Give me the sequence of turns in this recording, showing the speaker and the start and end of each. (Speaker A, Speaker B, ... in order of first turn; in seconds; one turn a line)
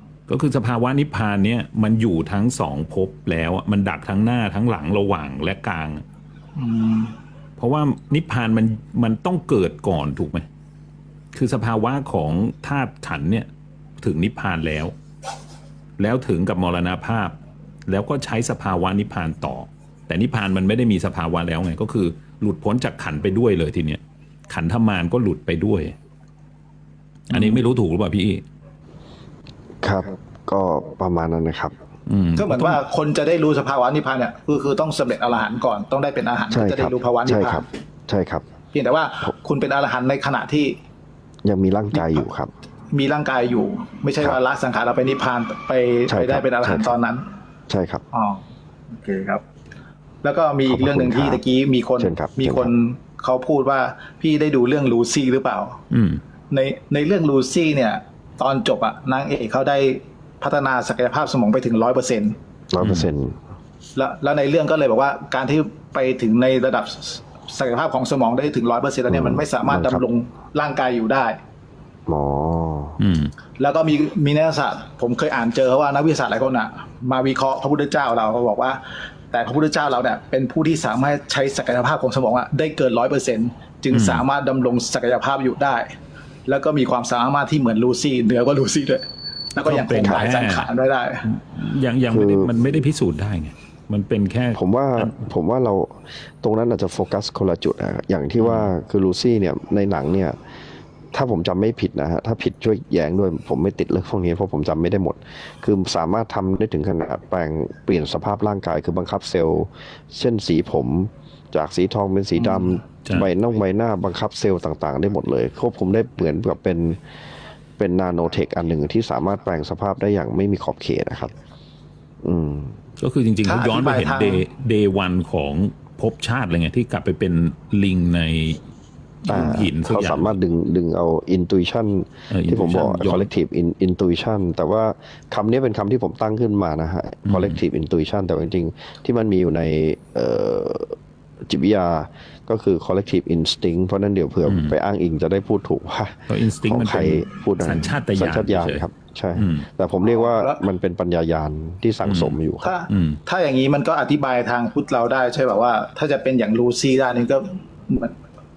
Speaker A: 0.3-6.0
Speaker B: 6.5-7.2
Speaker A: 7.6-10.5
Speaker A: 11.3-13.5
Speaker A: 14.0-14.9
Speaker A: 16.0-25.9
Speaker A: 27.3-28.4
Speaker C: 29.8-31.7
Speaker A: 32.1-32.8
Speaker B: 32.4-37.6
Speaker C: 36.5-38.4
Speaker B: 38.7-40.8
Speaker C: 41.4-42.5
Speaker B: 42.9-47.2
Speaker C: 46.1-46.9
Speaker C: 47.7-48.0
Speaker B: 48.1-49.4
Speaker B: 50.2-55.8
Speaker C: 50.6-51.4
Speaker C: 52.0-52.7
Speaker A: 55.9-56.2
Speaker B: 56.5-62.4
Speaker C: 62.7-63.4
Speaker A: 62.8-63.1
Speaker B: 63.9-71.4
Speaker C: 69.1-70.0
Speaker C: 72.1-73.0
Speaker A: 73.0-73.3
Speaker B: 73.6-85.9
Speaker A: 83.9-84.2
Speaker B: 86.5-91.3
Speaker A: 89.6-90.7
Speaker A: 91.2-95.1
Speaker C: 92.1-92.8
Speaker C: 94.5-100.4
Speaker A: 98.4-98.7
Speaker C: 101.1-117.0
Speaker B: 112.4-112.7
Speaker C: 117.8-121.3
Speaker C: 122.2-122.8
Speaker A: 123.0-128.6
Speaker B: 123.4-124.4
Speaker A: 129.2-130.4
Speaker C: 129.3-152.7
Speaker A: 132.3-133.3
Speaker A: 137.2-137.6
Speaker A: 144.4-144.7
Speaker A: 146.3-149.7
Speaker A: 152.0-152.4
Speaker B: 152.6-158.1
Speaker A: 152.9-153.2